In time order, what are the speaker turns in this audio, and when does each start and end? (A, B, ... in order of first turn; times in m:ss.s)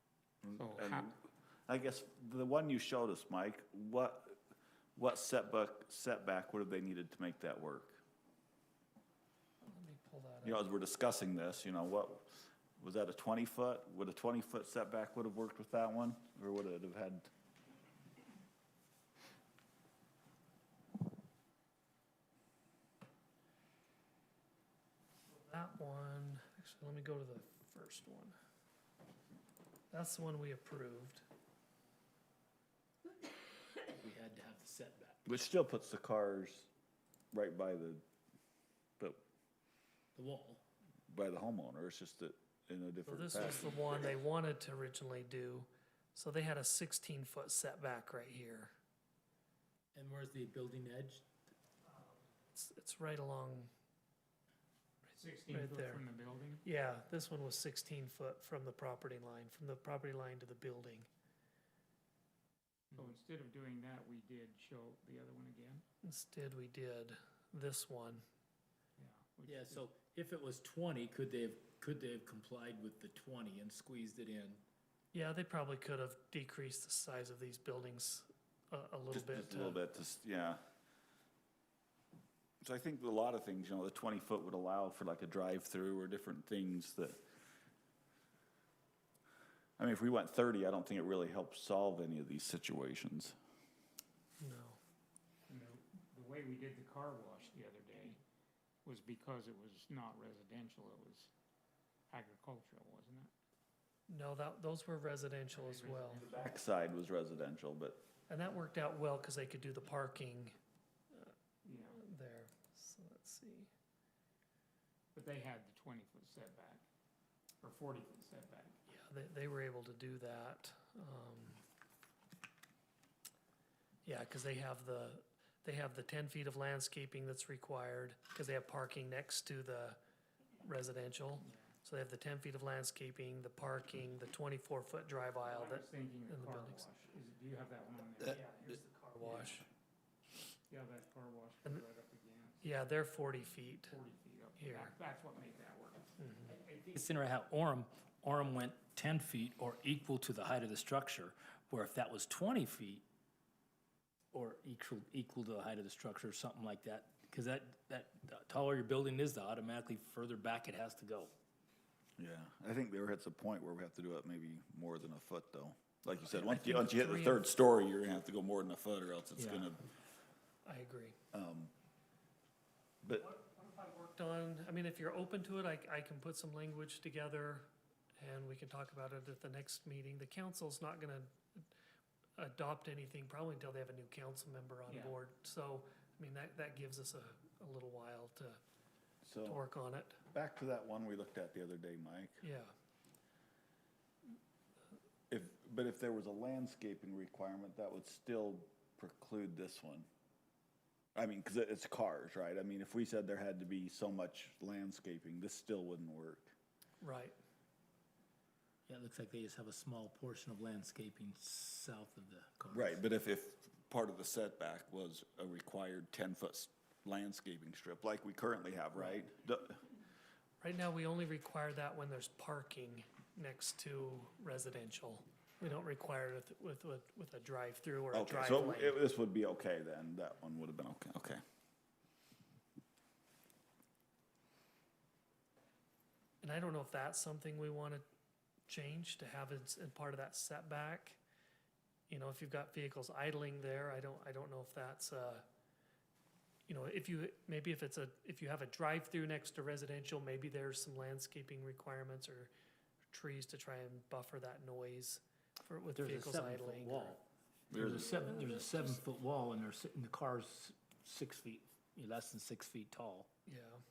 0:00.4-0:04.4 A
0:00.6-0:01.1 B
0:05.0-0:08.0 A
0:09.6-0:10.6 C
0:10.4-0:17.3 A
0:25.3-0:28.4 C
0:29.9-0:31.2 C
0:33.9-0:35.2 D
0:35.3-0:36.7 A
0:37.3-0:38.0 A
0:40.2-0:40.6 D
0:41.1-0:44.1 A
0:43.1-0:48.7 C
0:50.0-0:51.3 D
0:52.5-0:53.7 C
0:55.1-0:56.6 B
0:55.5-0:56.0 C
0:56.6-1:01.1 C
1:02.9-1:05.8 B
1:06.0-1:08.2 C
1:09.0-1:09.8 B
1:09.5-1:14.6 D
1:15.1-1:19.8 C
1:19.1-1:20.6 A
1:22.6-1:27.2 A
1:29.8-1:33.4 A
1:34.4-1:34.8 C
1:35.5-1:38.2 B
1:38.8-1:41.3 B
1:42.1-1:43.3 B
1:44.1-1:46.3 C
1:45.5-1:46.5 B
1:46.2-1:48.0 A
1:48.3-1:50.6 C
1:51.1-1:53.7 C
1:51.6-1:52.0 B
1:55.2-1:56.8 B
1:57.6-1:58.8 B
1:58.9-2:01.6 C
2:04.0-2:10.0 C
2:10.6-2:16.8 C
2:11.4-2:11.7 B
2:15.4-2:19.6 B
2:18.2-2:19.6 C
2:20.7-2:22.6 B
2:22.6-2:24.0 C
2:23.9-2:26.9 B
2:24.6-2:24.9 C
2:26.2-2:26.5 C
2:26.9-2:33.0 D
2:34.3-2:41.3 D
2:42.2-2:49.9 A
2:46.3-2:47.5 C
2:49.4-2:49.7 D
2:50.6-2:51.2 C
2:51.3-2:51.7 A
2:53.0-2:53.3 A
2:53.2-3:01.7 C
3:02.4-3:08.6 C
3:04.9-3:05.2 B
3:09.2-3:09.6 A
3:09.5-3:10.2 C
3:10.3-3:12.4 A
3:12.4-3:12.7 C
3:15.3-3:20.1 A
3:21.2-3:26.5 A
3:27.0-3:27.4 C
3:28.9-3:33.0 D
3:32.7-3:39.8 A
3:40.6-3:49.0 C
3:48.1-3:51.4 A
3:56.4-3:58.0 C
3:58.7-4:01.2 C
4:02.1-4:05.4 C
4:06.7-4:12.5 C
4:13.1-4:17.2 C
4:16.0-4:23.3 D
4:17.7-4:18.2 A
4:23.5-4:23.8 C